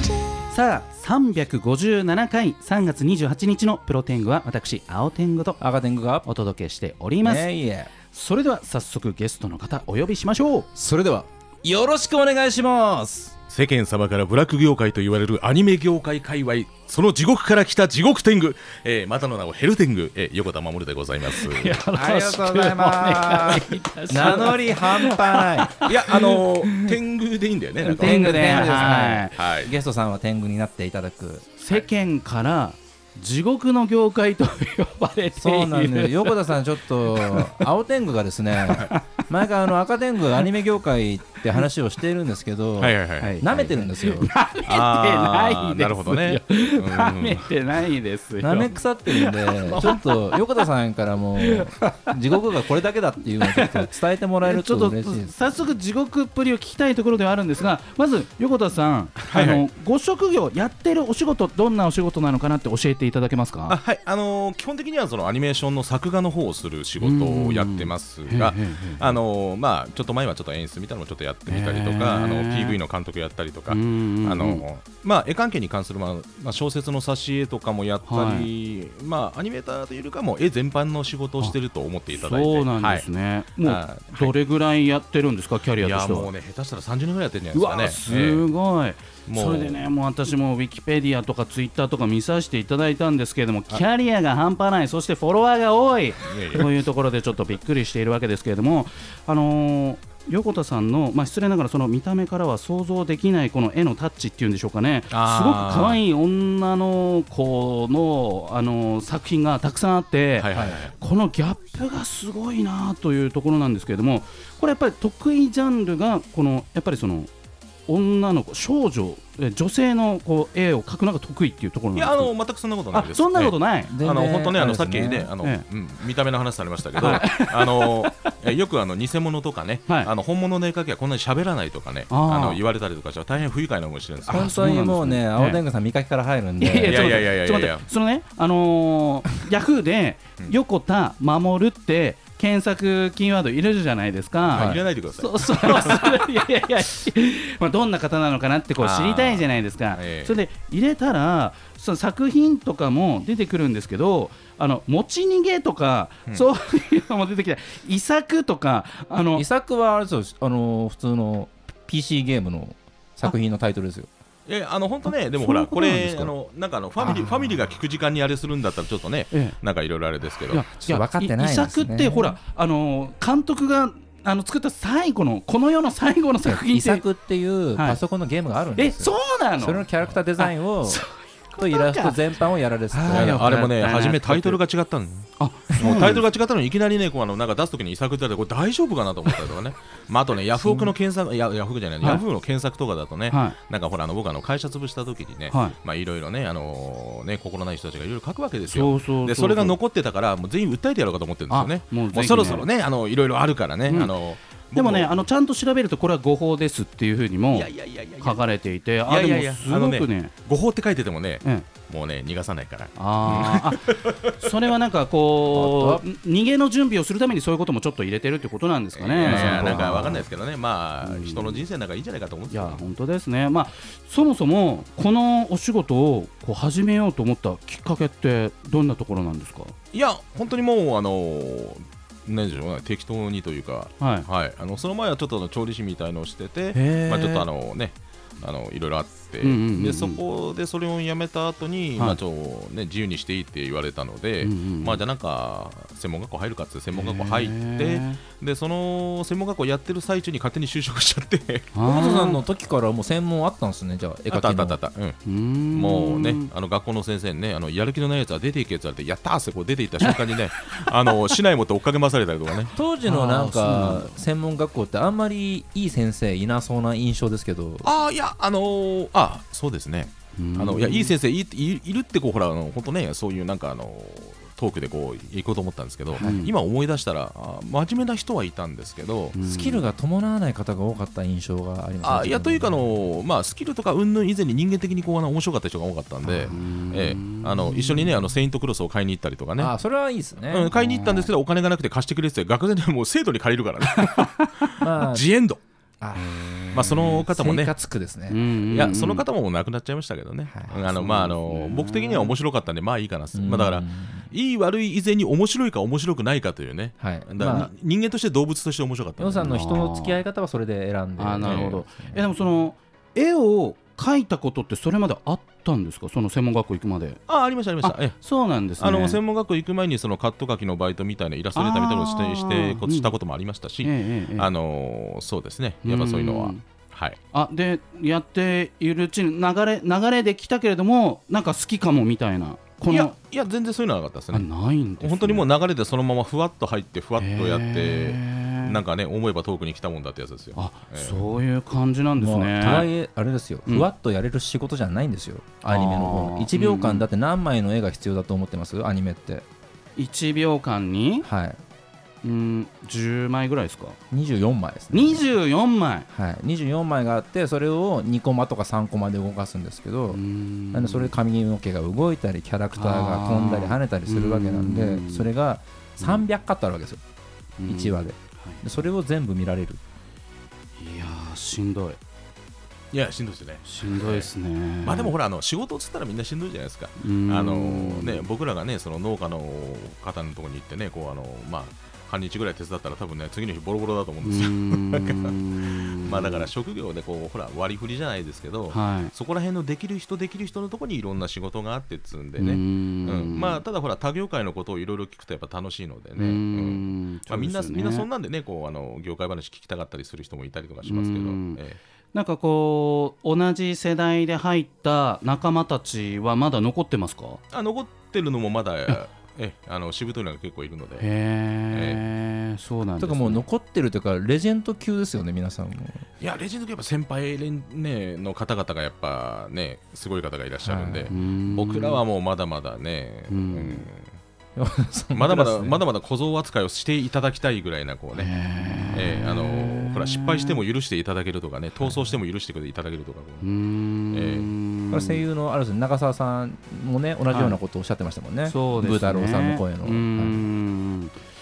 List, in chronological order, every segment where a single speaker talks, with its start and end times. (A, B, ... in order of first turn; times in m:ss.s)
0:00.5-0:05.6 A
0:05.6-0:06.3 B
0:06.2-0:10.7 A
0:07.2-0:07.9 B
0:10.8-0:13.3 B
0:13.5-0:21.8 C
0:21.2-0:27.0 A
0:21.9-0:25.8 B
0:25.9-0:29.7 C
0:27.8-0:29.4 A
0:28.0-0:31.5 B
0:31.6-0:37.7 A
0:35.4-0:44.3 B
0:38.7-0:39.0 A
0:42.8-0:43.4 C
0:43.2-0:50.7 A
0:44.6-0:47.5 C
0:48.4-0:55.3 B
0:51.4-0:52.5 A
0:53.4-1:03.8 A
0:59.3-0:59.6 C
1:03.7-1:23.1 C
1:07.0-1:09.2 A
1:11.5-1:12.8 A
1:13.7-1:14.6 A
1:18.0-1:18.5 A
1:22.1-1:26.3 A
1:23.6-1:24.4 C
1:25.8-1:28.5 C
1:27.5-1:57.3 A
1:29.3-1:29.8 C
1:36.2-1:36.7 C
1:45.1-1:46.0 C
1:50.4-1:50.9 C
1:57.9-2:02.3 A
2:02.0-2:14.6 C
2:02.9-2:04.0 A
2:03.9-2:05.3 B
2:07.0-2:08.3 A
2:12.1-2:12.6 A
2:14.3-2:17.3 B
2:14.3-2:15.6 A
2:16.6-2:39.5 A
2:16.8-2:17.8 C
2:24.4-2:26.0 C
2:24.6-2:24.8 B
2:28.8-2:30.4 C
2:39.3-2:44.1 B
2:44.5-2:50.6 C
2:45.4-2:46.3 A
2:49.3-2:49.6 A
2:50.5-2:57.1 A
2:50.6-2:52.4 B
2:56.4-3:03.5 B
2:57.7-2:58.0 A
2:58.8-2:59.9 A
3:00.4-3:04.6 A
3:03.1-3:25.1 C
3:05.4-3:06.2 A
3:05.8-3:06.2 B
3:10.6-3:10.9 A
3:13.3-3:13.6 A
3:15.5-3:15.8 A
3:18.7-3:19.8 A
3:21.5-3:22.7 A
3:23.9-3:24.1 A
3:24.8-3:30.3 A
3:27.5-3:28.4 C
3:29.1-3:34.4 C
3:31.4-3:31.7 A
3:33.0-3:40.3 A
3:35.5-3:36.0 B
3:38.9-3:42.8 C
3:39.2-3:40.2 B
3:41.0-3:41.6 A
3:42.5-3:49.8 A
3:49.9-4:11.8 C
3:54.0-3:54.3 A
3:56.7-3:57.5 A
3:59.4-4:00.2 A
4:04.4-4:05.0 A
4:06.9-4:08.2 A
4:11.7-4:12.4 A
4:11.8-4:14.8 B
4:14.3-4:15.2 C
4:15.2-4:16.5 A
4:15.7-4:22.8 C
4:20.0-4:21.1 A
4:22.7-4:27.9 B
4:23.0-4:24.2 A
4:27.8-4:39.4 C
4:30.4-4:31.1 A
4:36.2-4:36.5 A
4:39.3-4:39.9 A
4:39.4-4:42.9 B
4:42.0-4:49.7 C
4:46.4-4:48.2 A
4:49.6-4:50.8 B
4:50.5-4:55.6 C
4:50.8-4:51.3 A
4:54.1-4:54.7 A
4:54.8-4:55.3 B
4:56.0-4:58.4 B
4:56.7-4:57.7 C
4:58.3-4:59.2 A
4:58.7-5:09.8 C
5:00.5-5:00.9 B
5:00.9-5:02.4 A
5:03.3-5:04.3 B
5:07.0-5:07.7 B
5:09.2-5:12.3 B
5:09.4-5:10.2 A
5:11.2-5:17.2 A
5:11.4-5:11.8 C
5:17.3-5:18.2 C
5:17.8-5:19.2 A
5:18.8-5:27.2 C
5:21.6-5:23.2 A
5:23.8-5:24.5 A
5:25.8-5:26.6 A
5:27.3-5:33.1 A
5:32.9-5:34.5 C
5:34.3-5:35.5 A
5:35.0-5:41.3 C
5:37.2-5:38.8 A
5:40.6-5:42.9 A
5:42.2-5:49.4 B
5:45.7-5:47.1 A
5:50.0-5:51.3 A
5:51.2-5:51.6 B
5:52.2-5:54.0 A
5:54.1-5:55.3 B
5:54.9-5:56.1 A
5:56.1-6:00.2 B
6:00.1-6:01.2 A
6:00.7-6:07.0 B
6:02.7-6:05.3 A
6:07.6-6:08.6 A
6:07.7-6:09.8 B
6:10.8-6:12.0 A
6:12.9-6:14.3 C
6:13.6-6:15.1 A
6:14.8-6:41.8 C
6:17.0-6:18.3 A
6:24.2-6:26.5 A
6:28.7-6:29.1 A
6:32.4-6:33.6 A
6:36.2-6:38.1 A
6:40.8-6:41.6 A
6:42.1-6:47.4 A
6:47.5-6:51.1 C
6:51.0-6:53.4 A
6:51.7-6:52.0 C
6:53.0-6:56.0 B
6:56.2-7:04.1 C
7:00.6-7:01.1 B
7:01.1-7:02.0 A
7:03.3-7:03.9 A
7:04.6-7:05.8 B
7:05.1-7:08.3 C
7:08.1-7:10.6 A
7:08.9-7:13.5 C
7:13.4-7:15.2 A
7:14.1-7:14.5 C
7:14.9-7:20.5 B
7:17.3-7:17.6 A
7:18.5-7:21.2 A